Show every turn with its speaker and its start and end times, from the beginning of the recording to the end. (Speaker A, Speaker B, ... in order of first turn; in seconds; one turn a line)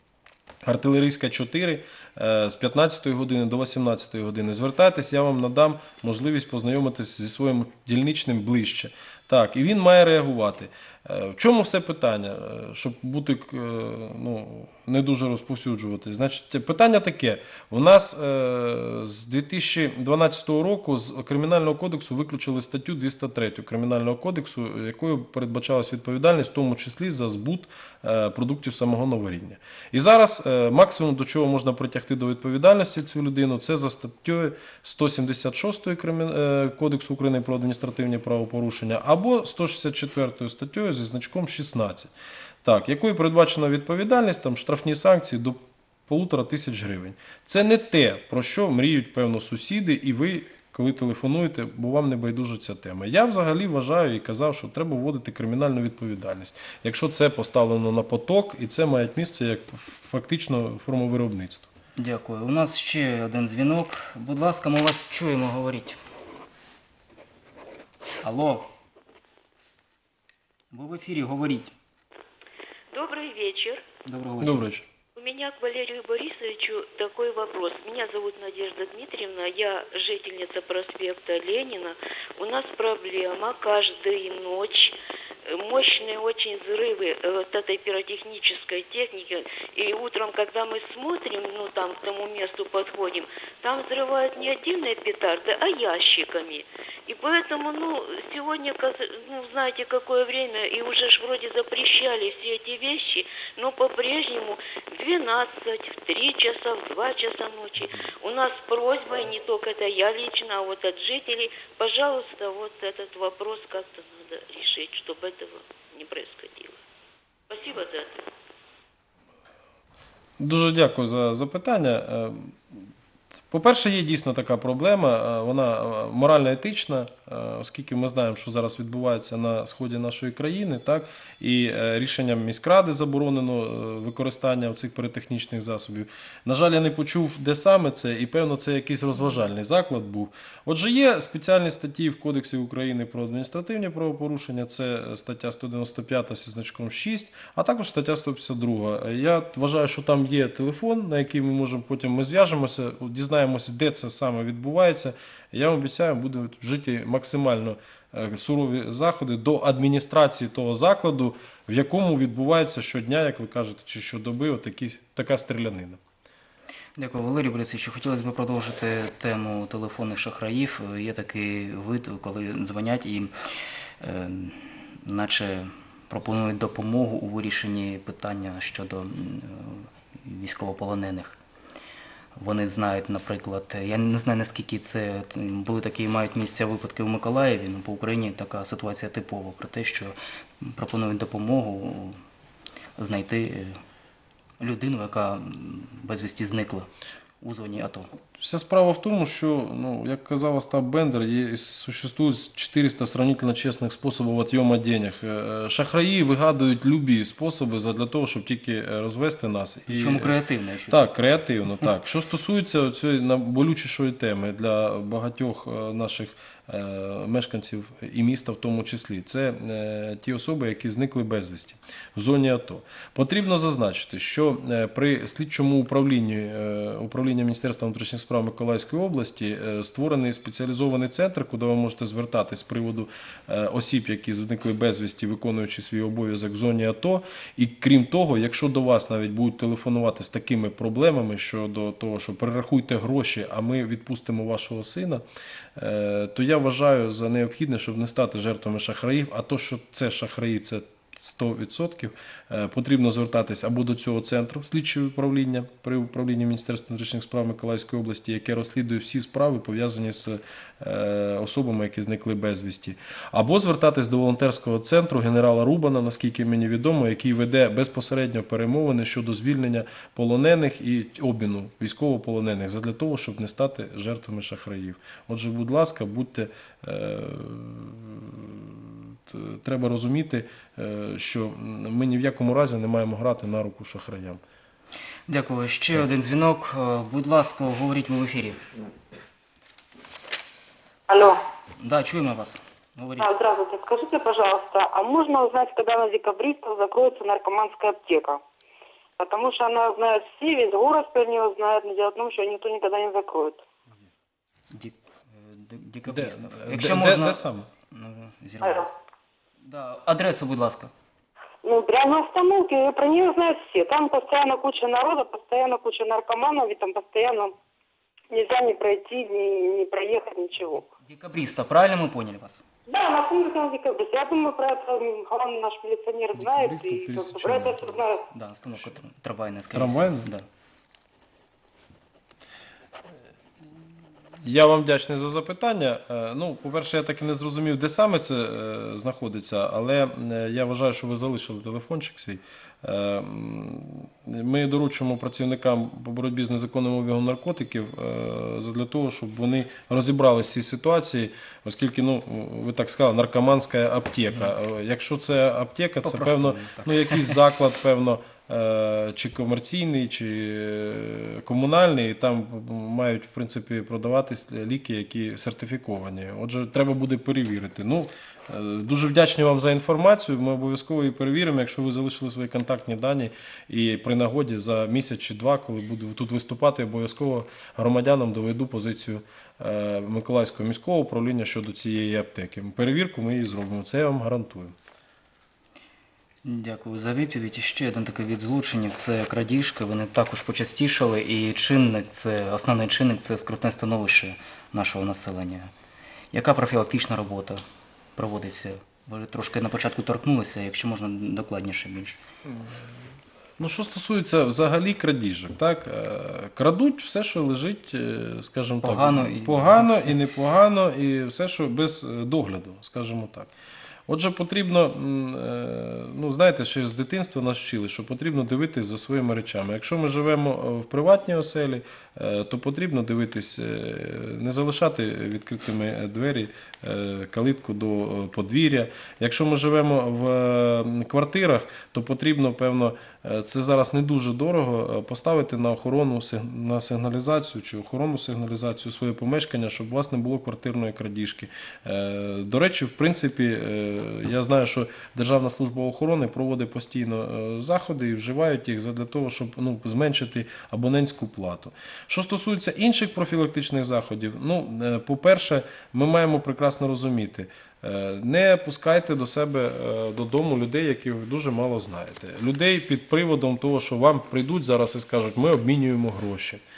Speaker A: 0.6-42.1
Speaker A: 42.6-61.7
Speaker B: 62.0-66.0
Speaker B: 68.2-68.7
Speaker B: 70.7-71.7
Speaker C: 72.9-73.8
Speaker B: 74.0-74.6
Speaker A: 74.4-74.8
Speaker C: 75.2-116.8
Speaker C: 117.5-118.2
Speaker A: 120.4-122.8
Speaker A: 123.5-166.0
Speaker B: 167.0-173.3
Speaker B: 174.0-181.4
Speaker B: 182.3-192.2
Speaker B: 193.0-193.8
Speaker B: 194.6-196.9
Speaker B: 197.4-198.1
Speaker A: 198.4-210.3
Speaker B: 209.9-211.0
Speaker A: 210.9-245.2
Speaker A: 245.8-284.4
Speaker B: 285.3-288.6
Speaker D: 291.1-291.4
Speaker B: 291.8-293.3
Speaker D: 293.2-298.4
Speaker D: 299.2-303.6
Speaker B: 304.7-308.9
Speaker A: 306.1-307.7
Speaker B: 309.6-310.9
Speaker D: 311.6-317.5
Speaker D: 318.3-320.8
Speaker B: 320.6-322.6
Speaker D: 322.9-328.2
Speaker A: 326.4-328.0
Speaker B: 328.3-330.4
Speaker A: 329.7-330.3
Speaker A: 334.4-384.8
Speaker B: 356.0-357.4
Speaker B: 386.4-395.7
Speaker B: 396.3-397.6
Speaker B: 398.1-402.2
Speaker A: 403.6-413.5
Speaker B: 408.8-410.1
Speaker A: 414.1-466.6